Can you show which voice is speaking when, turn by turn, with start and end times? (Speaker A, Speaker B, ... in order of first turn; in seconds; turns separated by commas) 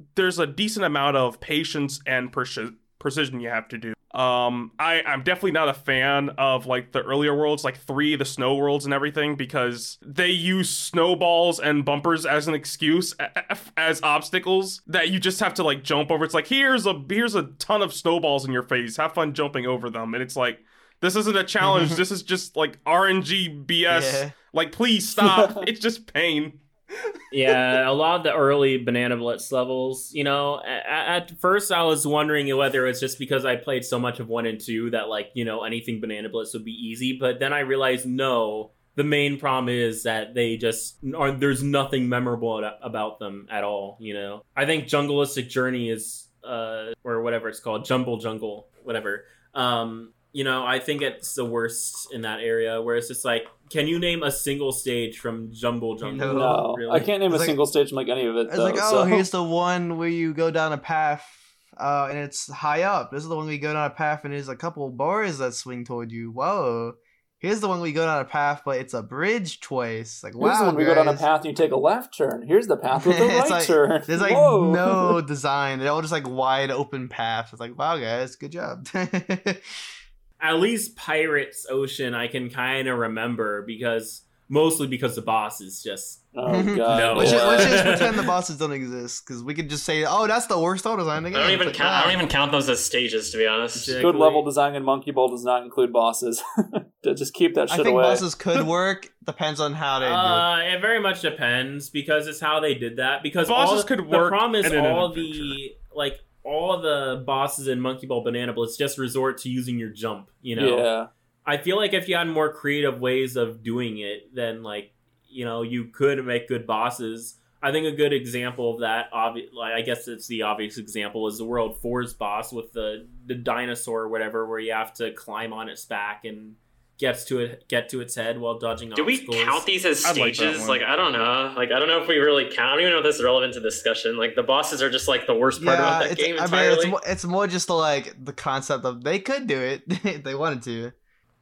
Speaker A: 0.1-27.1, Speaker B: 21.6-22.0, Speaker B: 23.9-24.3, Speaker C: 25.2-25.6, Speaker D: 27.3-57.1, Speaker B: 56.0-56.6, Speaker C: 56.1-59.2, Speaker B: 57.3-57.6, Speaker B: 58.5-71.2, Speaker C: 70.4-75.2, Speaker B: 72.9-79.8, Speaker D: 80.4-86.2, Speaker C: 86.3-87.9, Speaker B: 86.4-92.2, Speaker D: 86.9-88.2, Speaker E: 91.3-94.0, Speaker D: 93.7-94.5, Speaker C: 94.0-98.2, Speaker B: 97.7-100.5, Speaker D: 100.0-110.9, Speaker A: 103.4-105.6, Speaker C: 110.5-111.1, Speaker D: 111.4-129.6, Speaker E: 128.9-136.9, Speaker A: 130.0-130.8, Speaker B: 135.6-140.9